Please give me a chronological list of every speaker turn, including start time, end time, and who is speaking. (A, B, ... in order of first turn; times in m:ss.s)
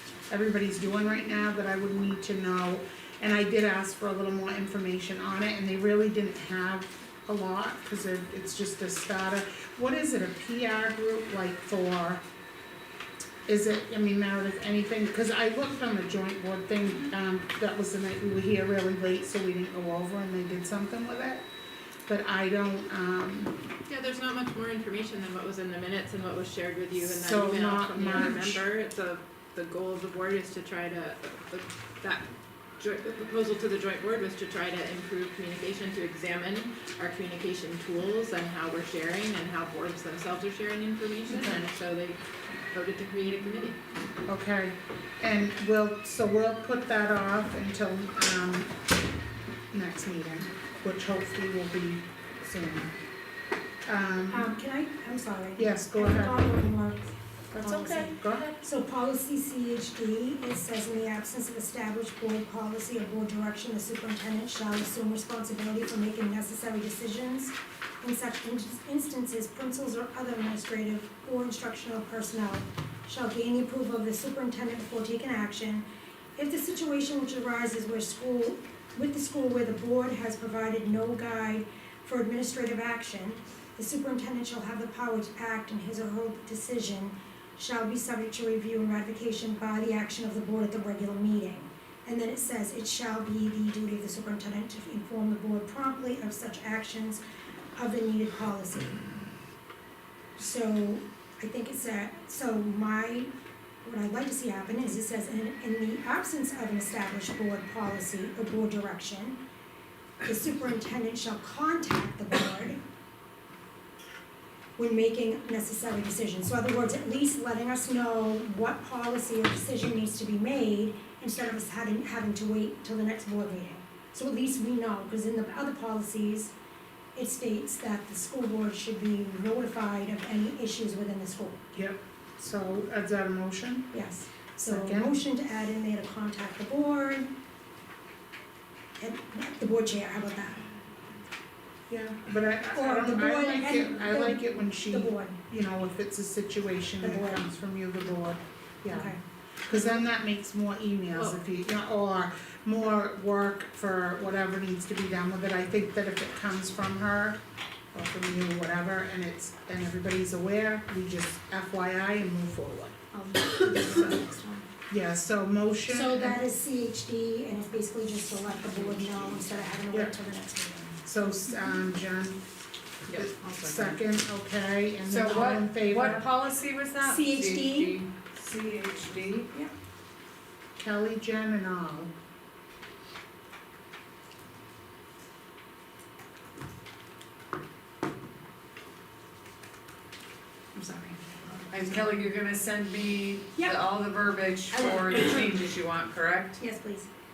0:00.3-0:12.2 A
0:13.5-0:21.4 A
0:22.1-0:23.5 A
0:23.9-0:42.2 B
0:27.0-0:28.6 A
0:41.3-0:41.6 A
0:42.7-0:43.8 B
0:44.3-0:48.7 A
0:49.7-0:52.9 A
0:53.8-0:54.5 A
0:54.3-0:57.1 C
0:55.6-0:56.4 A
0:57.5-0:58.6 A
0:57.6-1:15.8 C
1:16.4-1:37.2 C
1:37.8-1:39.2 C
1:40.4-1:43.3 C
1:43.8-1:49.4 C
1:50.2-1:52.8 C
1:54.8-2:06.5 C
2:07.1-2:11.6 C
2:11.7-2:13.9 A
2:13.9-2:17.3 C
2:14.6-2:15.1 A
2:19.0-2:20.6 C
2:21.9-2:29.1 A
2:22.7-2:25.4 C
2:27.0-2:27.4 C
2:28.9-2:30.1 C
2:29.7-2:37.4 A
2:37.9-2:43.0 A
2:43.1-2:44.6 C
2:44.9-2:46.4 A
2:45.9-2:51.0 C
2:51.0-2:52.4 A
2:53.1-2:54.0 D
2:53.1-2:56.2 A
2:55.0-2:59.5 D
2:57.0-2:58.0 C
3:00.8-3:02.1 A
3:10.7-3:12.0 C
3:11.7-3:16.6 D
3:14.7-3:15.6 C
3:16.6-3:17.1 C